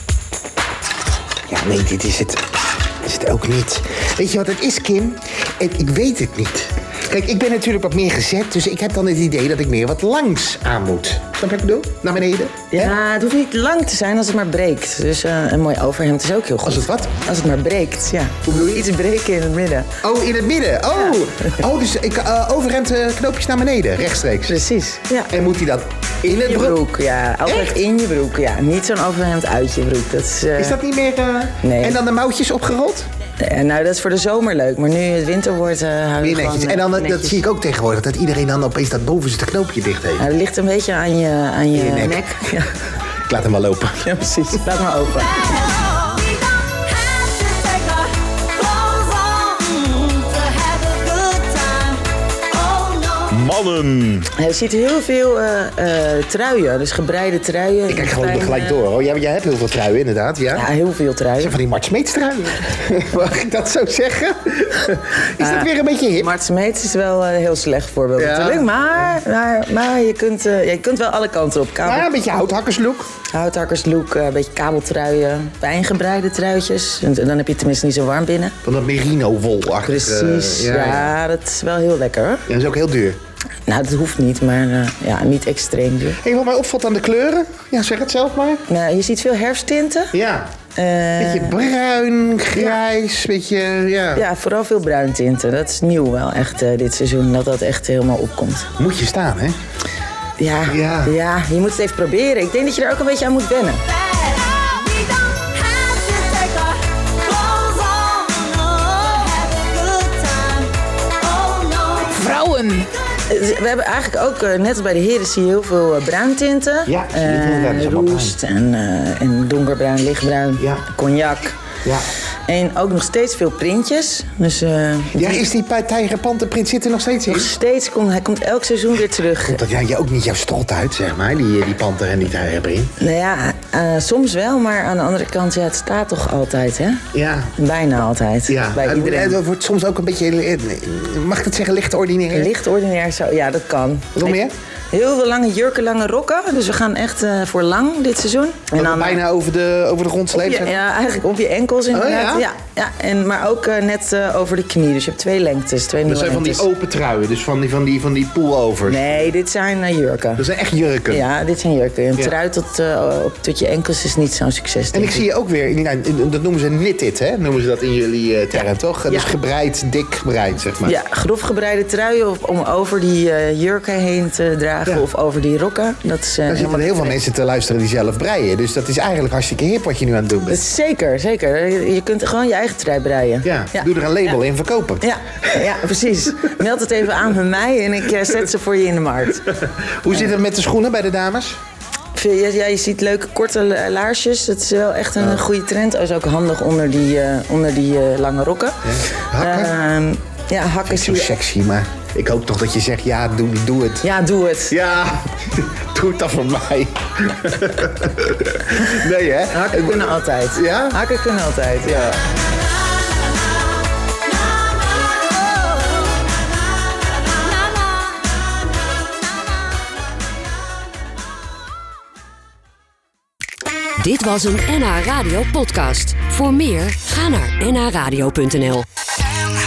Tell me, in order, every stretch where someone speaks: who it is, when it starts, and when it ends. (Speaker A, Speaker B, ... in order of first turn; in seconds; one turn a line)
Speaker A: 1.5-2.4
Speaker A: 3.0-13.0
Speaker B: 12.7-19.9
Speaker A: 16.6-17.1
Speaker A: 18.4-18.9
Speaker A: 20.0-24.6
Speaker B: 24.5-25.3
Speaker A: 25.3-26.8
Speaker B: 26.2-30.8
Speaker A: 27.5-27.8
Speaker A: 30.6-33.1
Speaker B: 31.6-32.0
Speaker B: 33.4-37.4
Speaker A: 36.2-40.2
Speaker B: 40.2-42.7
Speaker A: 41.7-42.3
Speaker A: 43.3-44.1
Speaker B: 44.0-45.7
Speaker C: 46.0-53.3
Speaker A: 53.3-54.3
Speaker B: 54.4-58.9
Speaker A: 57.9-60.7
Speaker B: 60.5-61.6
Speaker A: 61.4-66.3
Speaker B: 65.4-72.1
Speaker A: 68.2-69.1
Speaker A: 71.8-73.1
Speaker B: 73.3-78.6
Speaker A: 78.6-81.1
Speaker B: 79.8-82.5
Speaker A: 82.5-83.2
Speaker B: 83.7-86.2
Speaker A: 86.2-88.6
Speaker B: 88.7-90.1
Speaker A: 90.1-90.5
Speaker B: 90.7-91.6
Speaker A: 91.2-94.2
Speaker B: 94.2-98.7
Speaker A: 98.8-99.6
Speaker B: 100.4-103.8
Speaker A: 100.7-101.1
Speaker C: 104.2-112.9
Speaker B: 113.3-121.6
Speaker A: 116.9-118.4
Speaker A: 120.6-120.8
Speaker B: 122.5-125.5
Speaker A: 125.2-127.5
Speaker B: 127.3-129.6
Speaker A: 129.4-132.9
Speaker B: 133.0-137.0
Speaker A: 137.1-137.5
Speaker B: 137.6-139.4
Speaker A: 138.5-142.5
Speaker B: 142.3-144.4
Speaker A: 144.2-144.5
Speaker B: 144.9-149.2
Speaker A: 148.7-150.8
Speaker B: 150.3-156.7
Speaker A: 151.9-152.5
Speaker A: 156.1-159.3
Speaker B: 158.9-160.5
Speaker A: 160.4-161.3
Speaker B: 161.1-165.2
Speaker A: 164.9-171.0
Speaker B: 170.8-177.1
Speaker A: 176.5-180.6
Speaker B: 180.5-183.9
Speaker A: 183.4-185.1
Speaker B: 185.0-189.5
Speaker A: 189.7-191.6
Speaker B: 192.2-198.8
Speaker A: 198.8-199.8
Speaker B: 199.4-201.3
Speaker A: 200.8-204.1
Speaker B: 204.0-204.7
Speaker A: 204.7-211.0
Speaker B: 209.5-212.2
Speaker A: 211.9-212.1
Speaker D: 224.0-228.9